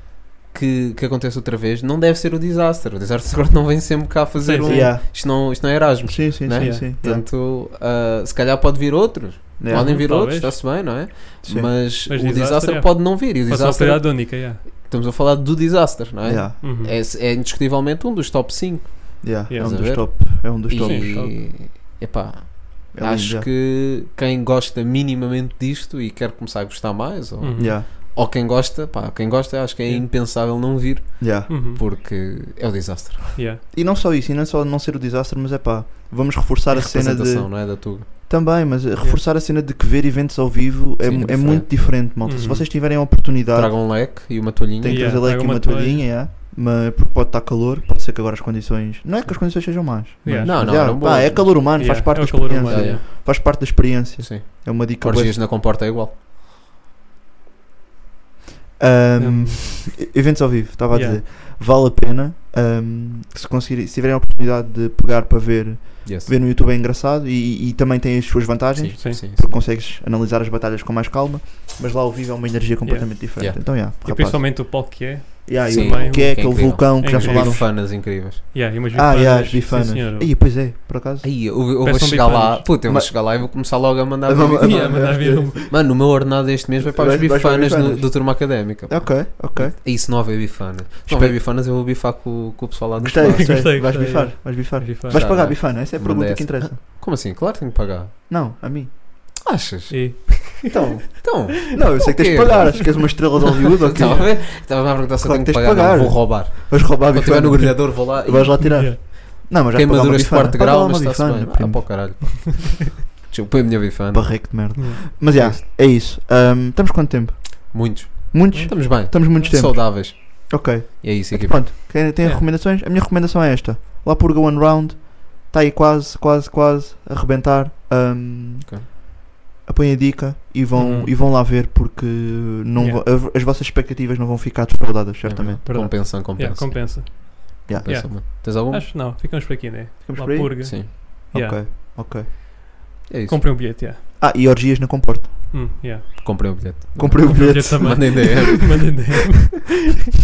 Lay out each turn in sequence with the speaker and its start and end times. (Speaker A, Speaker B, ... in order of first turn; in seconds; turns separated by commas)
Speaker A: 0.5-33.4, Speaker B: 4.4-4.9, Speaker C: 4.6-7.2, Speaker B: 6.5-6.8, Speaker C: 9.6-10.1, Speaker B: 9.7-10.6, Speaker C: 11.4-11.7, Speaker B: 12.1-14.6, Speaker C: 16.2-16.6, Speaker B: 16.6-16.9, Speaker C: 19.2-21.1, Speaker B: 19.5-19.8, Speaker B: 20.7-21.4, Speaker C: 22.9-23.4, Speaker B: 27.4-27.7, Speaker C: 27.6-27.9, Speaker C: 31.2-31.5, Speaker B: 31.5-31.8, Speaker B: 33.3-33.6, Speaker C: 33.7-55.4, Speaker A: 36.7-38.1, Speaker A: 41.0-41.9, Speaker B: 42.2-42.6, Speaker A: 43.5-45.2, Speaker B: 44.9-46.1, Speaker B: 50.2-51.2, Speaker A: 50.3-51.8, Speaker B: 51.8-53.0, Speaker A: 52.7-53.0, Speaker A: 54.2-56.1, Speaker C: 58.8-74.6, Speaker B: 59.2-60.0, Speaker B: 60.9-61.2, Speaker A: 66.0-66.3, Speaker A: 68.8-69.6, Speaker B: 72.8-80.3, Speaker C: 75.5-77.7, Speaker A: 75.7-78.4, Speaker C: 78.9-81.3, Speaker A: 81.2-93.8, Speaker B: 81.8-82.7, Speaker C: 82.8-85.9, Speaker B: 84.6-85.6, Speaker C: 86.8-90.4, Speaker C: 91.1-91.4, Speaker C: 93.0-96.8, Speaker B: 93.2-95.2, Speaker A: 95.1-98.1, Speaker C: 98.3-98.9, Speaker A: 99.4-103.0, Speaker B: 99.9-100.9, Speaker C: 100.7-101.0, Speaker C: 101.6-112.4, Speaker A: 103.8-108.8, Speaker B: 108.6-109.0, Speaker A: 109.7-114.7, Speaker C: 114.1-129.0, Speaker B: 114.8-115.0, Speaker A: 115.3-115.6, Speaker A: 117.7-121.6, Speaker C: 129.6-135.6, Speaker B: 130.7-131.1, Speaker B: 132.8-133.0, Speaker A: 135.2-137.0, Speaker B: 135.6-141.6, Speaker A: 137.7-138.9, Speaker C: 140.0-142.3, Speaker A: 140.6-140.9, Speaker A: 143.1-143.4, Speaker B: 143.3-144.0, Speaker C: 144.2-145.5, Speaker B: 145.5-146.7, Speaker A: 146.2-149.0, Speaker C: 146.9-148.4, Speaker B: 147.3-149.8